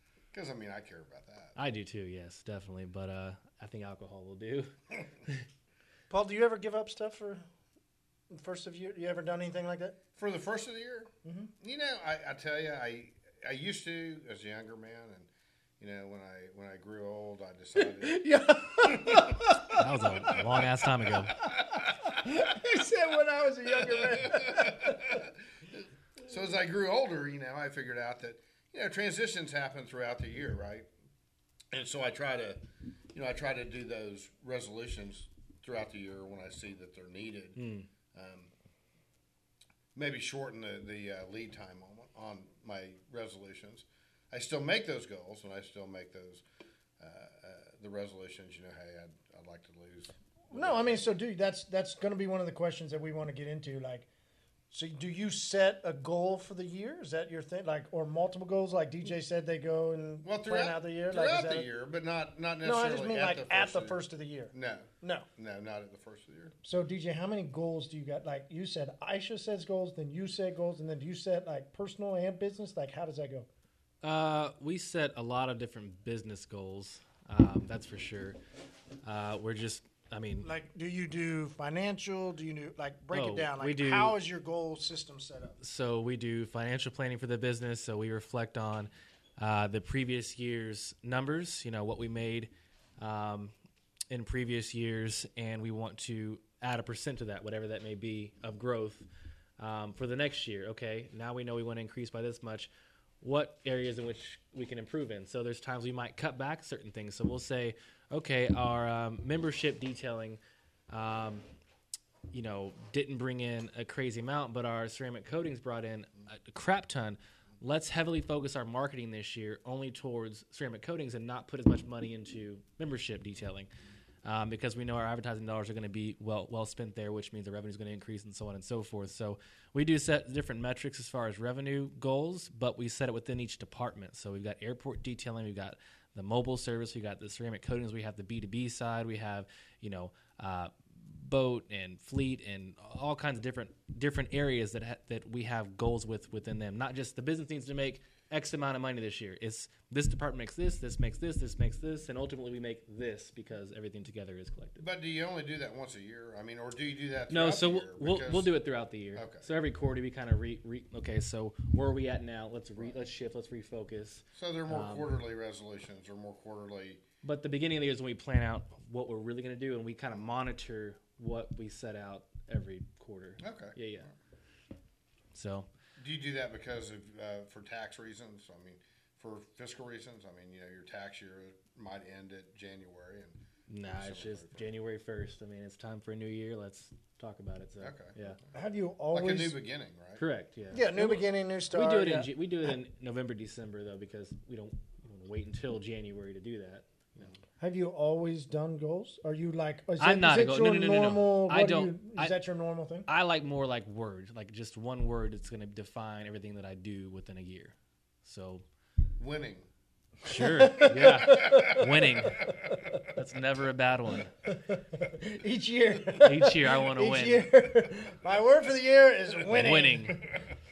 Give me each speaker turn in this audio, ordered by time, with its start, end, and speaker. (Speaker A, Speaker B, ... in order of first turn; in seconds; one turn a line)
Speaker A: 0.3-1.6
Speaker B: 1.6-4.7
Speaker C: 6.1-7.4
Speaker C: 8.3-10.0
Speaker A: 10.2-11.1
Speaker C: 11.2-11.5
Speaker A: 11.6-15.3
Speaker A: 15.8-18.2
Speaker C: 17.8-20.3
Speaker A: 18.8-19.6
Speaker B: 19.8-21.3
Speaker C: 21.4-25.2
Speaker A: 23.9-30.9
Speaker A: 31.7-32.6
Speaker A: 33.1-37.6
Speaker B: 37.5-37.9
Speaker A: 38.1-38.5
Speaker A: 39.9-46.4
Speaker A: 47.0-51.1
Speaker C: 50.5-54.1
Speaker C: 54.7-61.7
Speaker A: 60.2-66.5
Speaker C: 62.6-65.3
Speaker C: 66.6-73.5
Speaker B: 74.0-78.4
Speaker B: 79.0-80.5
Speaker C: 80.4-85.6
Speaker B: 83.1-84.2
Speaker B: 85.6-93.5
Speaker B: 94.1-99.1
Speaker B: 99.6-102.7
Speaker B: 103.2-111.5
Speaker B: 112.3-123.7
Speaker B: 124.2-154.8
Speaker A: 154.8-158.5
Speaker B: 157.3-165.2
Speaker A: 159.1-159.5
Speaker A: 164.3-167.0
Speaker B: 167.2-174.1
Speaker A: 173.4-174.1
Speaker B: 175.3-175.7
Speaker A: 176.0-184.6
Speaker B: 183.7-188.4
Speaker A: 187.8-188.5
Speaker C: 188.5-189.6
Speaker A: 189.1-190.2
Speaker B: 190.2-197.3
Speaker C: 190.7-192.8
Speaker C: 197.6-203.1
Speaker B: 200.0-202.4
Speaker B: 203.1-208.6
Speaker A: 209.2-209.7
Speaker B: 210.2-212.4
Speaker C: 210.2-213.0
Speaker A: 210.9-212.5
Speaker B: 213.1-214.3
Speaker C: 214.4-220.4
Speaker B: 216.2-217.5
Speaker B: 219.5-220.2